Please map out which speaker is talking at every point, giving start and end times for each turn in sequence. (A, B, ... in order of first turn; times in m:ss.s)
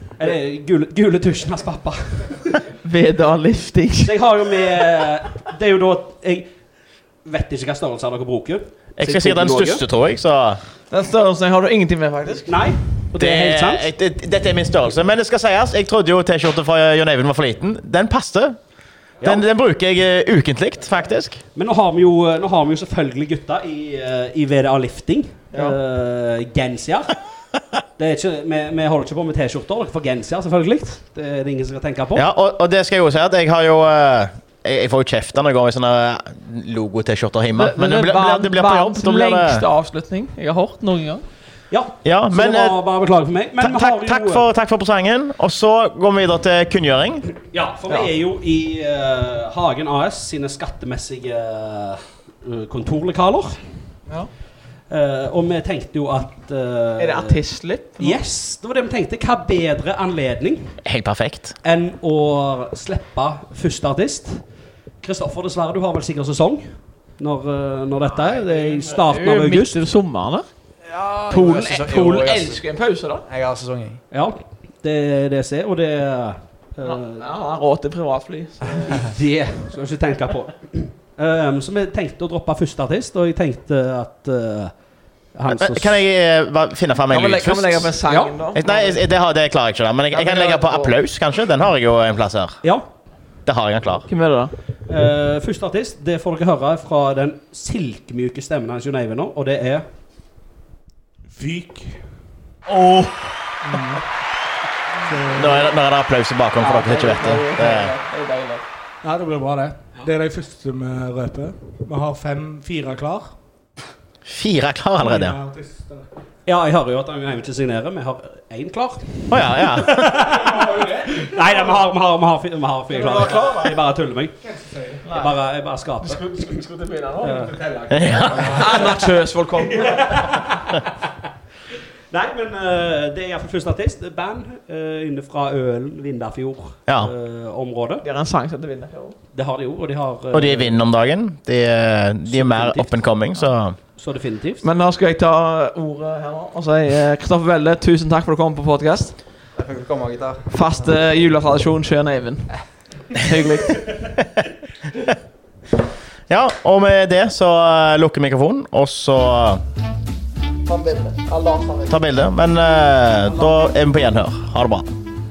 0:00.2-0:02.6 A
0:02.8-0:04.1 B
0:04.0-0:06.5 A
0:07.2-0:09.8 A
0:09.0-0:10.6 C
0:10.9-0:12.7 B
0:12.5-0:13.9 A
0:13.2-0:18.6 C
0:19.2-0:21.4 C
0:21.5-0:27.2 A
0:25.5-0:25.8 B
0:28.0-0:32.2 A
0:32.2-0:39.6 C
0:37.5-0:41.2 B
0:41.7-0:44.4 A
0:42.0-0:42.8 C
0:43.6-0:47.3 C
0:47.4-0:53.6 A
0:54.9-0:57.4 A
0:57.0-0:58.2 B
0:58.0-1:00.8 A
1:00.8-1:01.6 C
1:01.6-1:04.4 A
1:05.0-1:09.8 A
1:08.2-1:10.5 B
1:10.9-1:12.6 D
1:11.3-1:13.2 B
1:13.2-1:14.0 D
1:14.1-1:17.3 A
1:16.8-1:19.1 B
1:18.9-1:24.7 A
1:25.3-1:26.0 A
1:25.5-1:27.9 C
1:27.1-1:29.0 B
1:28.0-1:28.4 A
1:28.5-1:32.6 C
1:30.1-1:30.9 B
1:33.4-1:34.1 C
1:34.1-1:34.5 B
1:34.9-1:39.8 A
1:41.3-1:42.1 E
1:42.7-1:43.3 B
1:43.6-1:44.0 E
1:45.0-1:45.7 E
1:45.3-1:47.9 C
1:46.6-1:48.6 B
1:49.0-1:53.4 E
1:54.3-1:55.4 C
1:55.0-1:56.1 E
1:56.4-2:04.4 A
1:59.3-2:00.1 C
2:00.2-2:01.8 E
2:02.9-2:03.7 B
2:04.4-2:05.1 E
2:05.0-2:05.3 B
2:05.0-2:06.6 A
2:06.0-2:07.5 B
2:07.2-2:07.5 A
2:07.3-2:09.0 E
2:07.9-2:08.5 C
2:08.4-2:10.5 B
2:09.6-2:10.1 E
2:09.8-2:10.9 A
2:12.1-2:18.0 A
2:16.9-2:17.1 C
2:18.0-2:19.2 B
2:19.3-2:20.8 A
2:20.3-2:23.8 C
2:22.2-2:23.0 A
2:23.9-2:24.6 A
2:24.6-2:29.2 B
2:29.5-2:30.9 D
2:30.5-2:33.9 B
2:36.3-2:39.6 C
2:40.6-2:42.0 B
2:41.9-2:44.9 C